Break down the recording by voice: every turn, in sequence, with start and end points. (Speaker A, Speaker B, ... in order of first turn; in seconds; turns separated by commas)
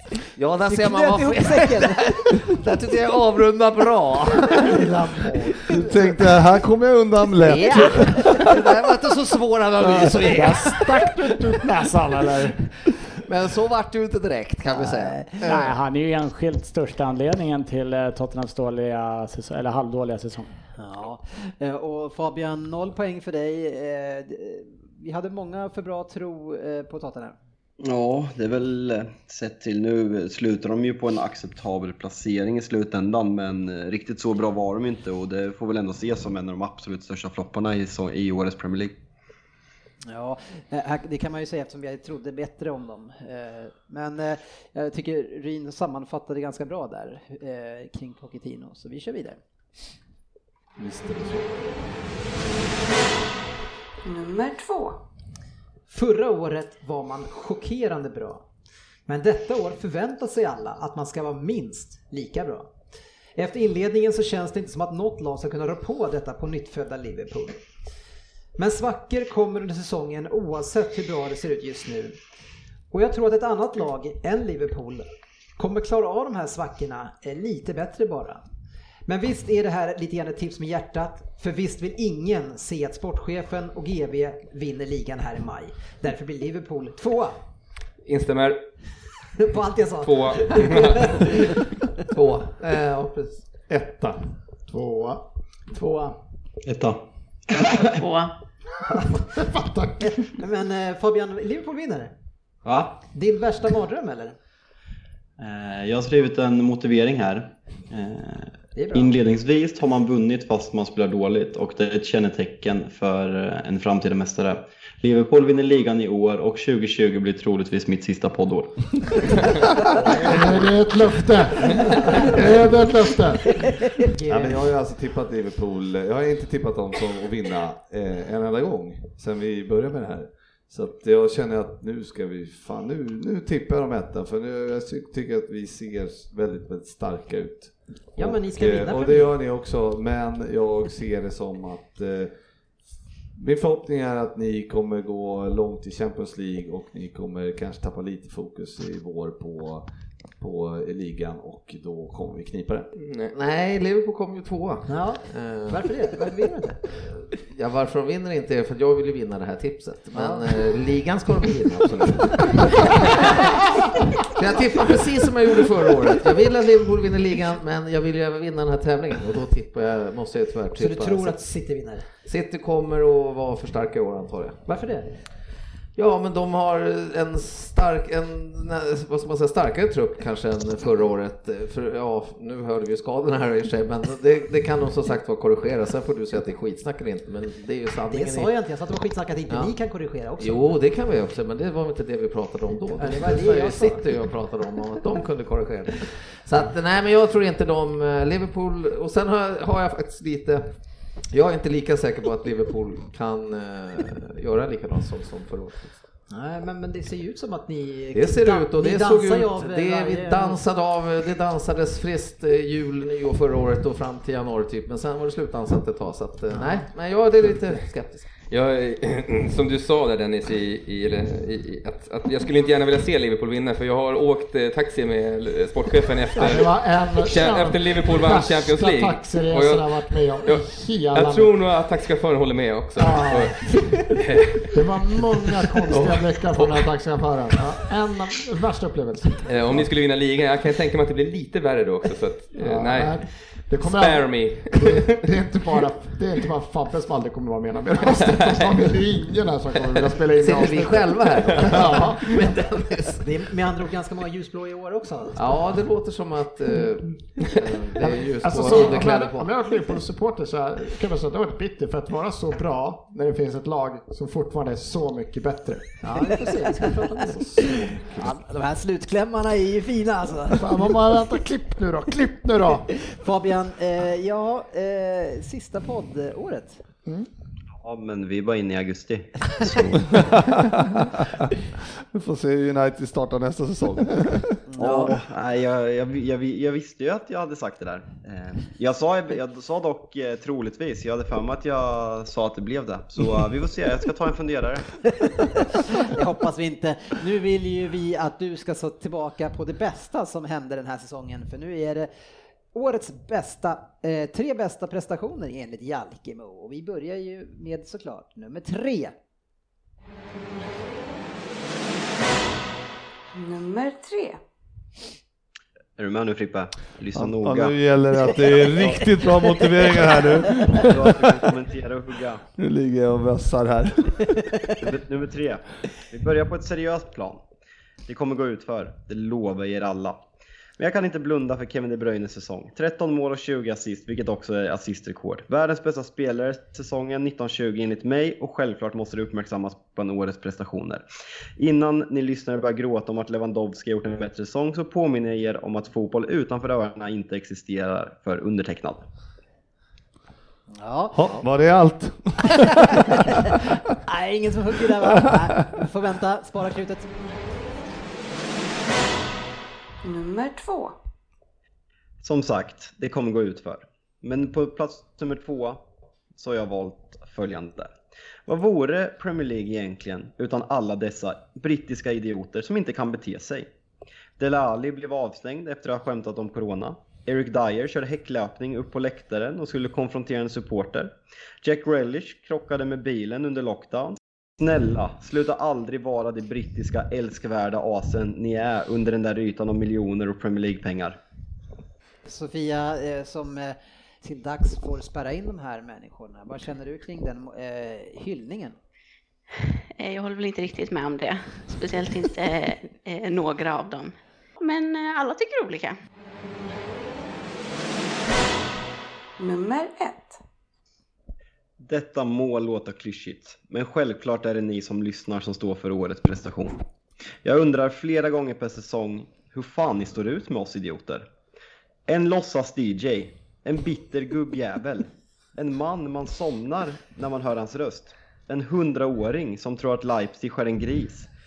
Speaker A: 0.3-5.4, Speaker B: 0.7-2.4, Speaker C: 4.8-5.5, Speaker D: 5.7-8.5, Speaker A: 7.4-11.1, Speaker B: 7.7-8.4, Speaker D: 9.9-10.1, Speaker C: 10.3-12.8, Speaker A: 13.2-15.7, Speaker B: 14.7-15.7, Speaker E: 15.4-20.5, Speaker B: 20.8-27.4, Speaker F: 27.8-39.0, Speaker B: 40.1-49.4, Speaker D: 50.8-52.0, Speaker G: 54.0-55.0, Speaker B: 55.9-58.5, Speaker B: 59.1-62.7, Speaker B: 63.4-67.6, Speaker B: 68.6-72.2, Speaker B: 72.9-78.4, Speaker B: 79.1-87.4, Speaker H: 88.0-88.6, Speaker B: 89.4-91.4, Speaker H: 90.0-91.2, Speaker A: 92.1-93.5, Speaker D: 93.7-94.2, Speaker C: 94.7-95.2, Speaker E: 95.7-96.2, Speaker F: 96.6-98.0, Speaker I: 97.9-98.3, Speaker C: 99.2-100.2, Speaker B: 100.0-102.1, Speaker F: 102.6-103.0, Speaker B: 103.1-104.3, Speaker F: 105.4-120.6, Speaker B: 108.7-109.1, Speaker D: 119.9-120.5, Speaker C: 120.2-123.5, Speaker B: 124.0-124.6, Speaker D: 124.3-142.3, Speaker B: 138.2-139.3, Speaker D: 143.3-149.8, Speaker D: 150.4-152.9, Speaker H: 153.0-153.3, Speaker A: 153.3-156.1, Speaker B: 154.9-156.8, Speaker A: 157.0-163.7, Speaker B: 160.1-160.4, Speaker A: 164.2-171.4, Speaker B: 170.8-172.1, Speaker A: 172.2-174.6, Speaker B: 174.7-175.2, Speaker A: 175.9-188.5, Speaker B: 188.1-190.7, Speaker A: 189.5-189.7, Speaker A: 190.4-206.0, Speaker B: 193.0-194.0, Speaker B: 206.3-210.6, Speaker A: 208.1-218.4, Speaker H: 218.4-234.6, Speaker C: 226.4-231.5, Speaker C: 233.0-233.9, Speaker C: 234.7-239.8, Speaker A: 235.9-236.9, Speaker H: 239.4-245.2, Speaker C: 242.5-252.4, Speaker A: 250.3-253.3, Speaker B: 253.2-255.5, Speaker A: 255.3-259.5, Speaker C: 258.0-266.0, Speaker B: 266.0-270.9, Speaker A: 266.9-268.2, Speaker C: 270.6-272.9, Speaker B: 272.9-276.8, Speaker F: 277.8-279.9, Speaker D: 279.9-281.5, Speaker D: 282.1-284.6, Speaker B: 284.7-285.1, Speaker F: 284.8-295.1, Speaker B: 295.7-302.1, Speaker B: 302.7-309.1, Speaker G: 313.3-314.4, Speaker F: 316.0-319.0, Speaker D: 317.1-321.2, Speaker F: 320.7-322.4, Speaker D: 322.6-324.4, Speaker F: 324.8-327.4, Speaker F: 328.1-330.2, Speaker F: 330.8-341.0, Speaker F: 341.6-349.0, Speaker B: 350.8-351.4, Speaker D: 351.1-353.5, Speaker B: 352.8-357.3, Speaker G: 360.0-360.9, Speaker F: 362.2-365.8, Speaker F: 366.3-367.9, Speaker F: 368.4-373.7, Speaker F: 374.4-391.2, Speaker B: 392.2-398.8, Speaker I: 400.0-406.0, Speaker G: 409.4-410.4, Speaker F: 411.8-416.8, Speaker F: 417.4-421.3, Speaker F: 422.1-431.3